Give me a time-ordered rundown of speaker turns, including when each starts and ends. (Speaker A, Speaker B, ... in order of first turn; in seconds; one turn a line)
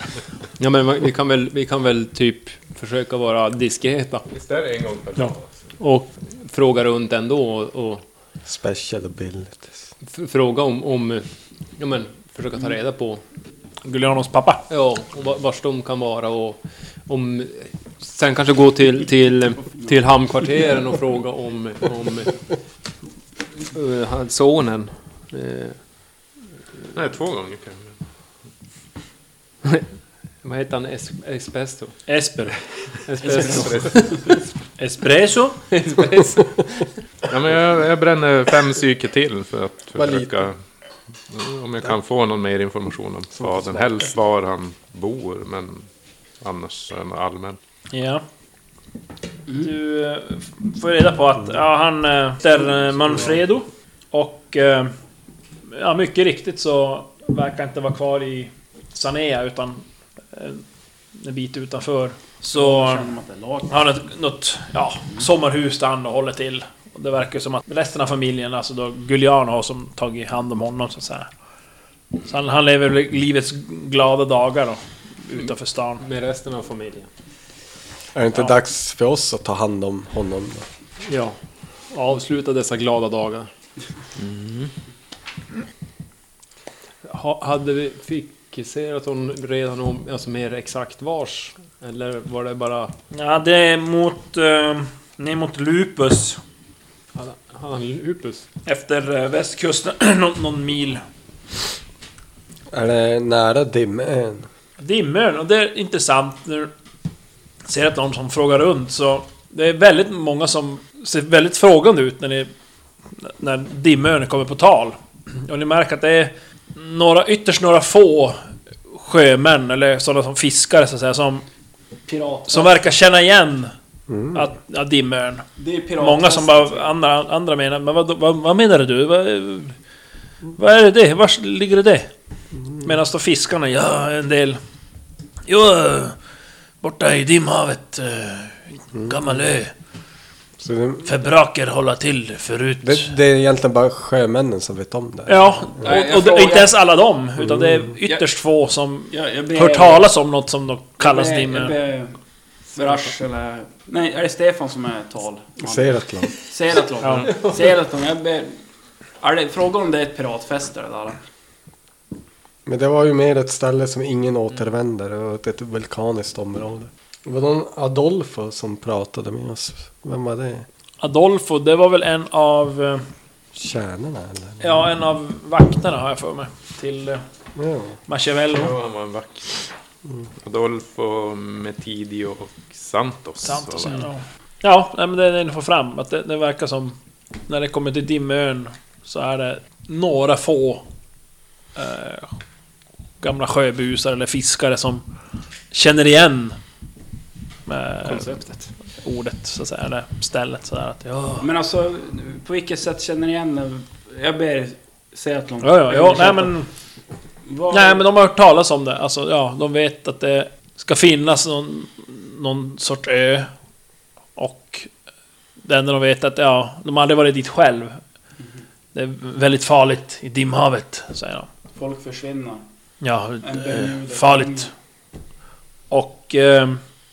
Speaker A: 0.6-4.3
Speaker B: 4.3-5.6
Speaker A: 5.8-8.0
Speaker C: 8.5-9.8
Speaker A: 10.1-11.3
Speaker A: 11.8-13.2
Speaker D: 13.8-14.6
Speaker A: 14.7-22.4
Speaker A: 23.7-25.8
Speaker B: 26.9-27.9
Speaker A: 30.4-32.0
Speaker D: 32.1-32.6
Speaker A: 33.0-34.3
Speaker E: 33.2-34.2
Speaker B: 33.5-34.0
Speaker D: 34.8-35.6
Speaker A: 35.7-36.9
Speaker B: 37.3-40.6
Speaker C: 40.0-40.5
Speaker B: 41.3-45.9
Speaker C: 43.4-44.0
Speaker B: 46.4-47.6
Speaker D: 47.9-48.2
Speaker D: 49.6-54.9
Speaker D: 55.7-60.6
Speaker D: 61.2-63.1
Speaker E: 62.5-63.7
Speaker D: 63.7-71.3
Speaker D: 72.3-76.0
Speaker A: 76.0-77.1
Speaker C: 78.2-80.7
Speaker A: 81.0-81.4
Speaker A: 81.9-83.5
Speaker B: 84.2-84.7
Speaker A: 87.0-92.9
Speaker D: 93.1-96.4
Speaker A: 97.2-98.5
Speaker D: 98.7-101.0
Speaker C: 102.7-104.5
Speaker D: 104.8-106.7
Speaker D: 107.7-112.5
Speaker D: 113.2-121.4
Speaker E: 122.1-122.9
Speaker D: 122.5-123.7
Speaker C: 124.1-124.5
Speaker D: 124.3-125.5
Speaker E: 125.6-126.9
Speaker D: 126.0-129.8
Speaker D: 130.6-132.1
Speaker D: 132.8-134.6
Speaker D: 135.5-136.2
Speaker D: 136.8-139.7
Speaker C: 138.9-139.3
Speaker C: 140.6-141.1
Speaker D: 141.1-143.1
Speaker C: 142.8-145.9
Speaker D: 145.3-151.8
Speaker E: 145.8-146.8
Speaker C: 147.4-147.9
Speaker E: 149.1-150.0
Speaker E: 151.0-152.2
Speaker E: 152.8-158.6
Speaker C: 155.6-156.3
Speaker D: 157.0-157.3
Speaker A: 157.3-157.6
Speaker E: 159.2-161.2
Speaker C: 162.7-170.7
Speaker D: 171.0-173.1
Speaker C: 173.5-174.8
Speaker D: 174.6-177.2
Speaker C: 177.6-178.0
Speaker D: 178.1-178.7
Speaker B: 178.5-179.7
Speaker B: 180.4-184.0
Speaker D: 183.4-187.0
Speaker D: 187.5-190.8
Speaker D: 191.8-192.3
Speaker D: 193.2-195.1
Speaker D: 195.7-196.6
Speaker D: 197.7-198.4
Speaker A: 198.0-198.7
Speaker D: 199.0-201.5
Speaker E: 201.4-206.5
Speaker D: 205.6-206.7
Speaker E: 207.5-208.1
Speaker D: 207.7-213.5
Speaker D: 214.4-214.9
Speaker D: 215.6-218.0
Speaker D: 218.9-221.5
Speaker E: 221.8-222.6
Speaker D: 223.0-224.7
Speaker E: 223.4-224.7
Speaker D: 225.9-226.8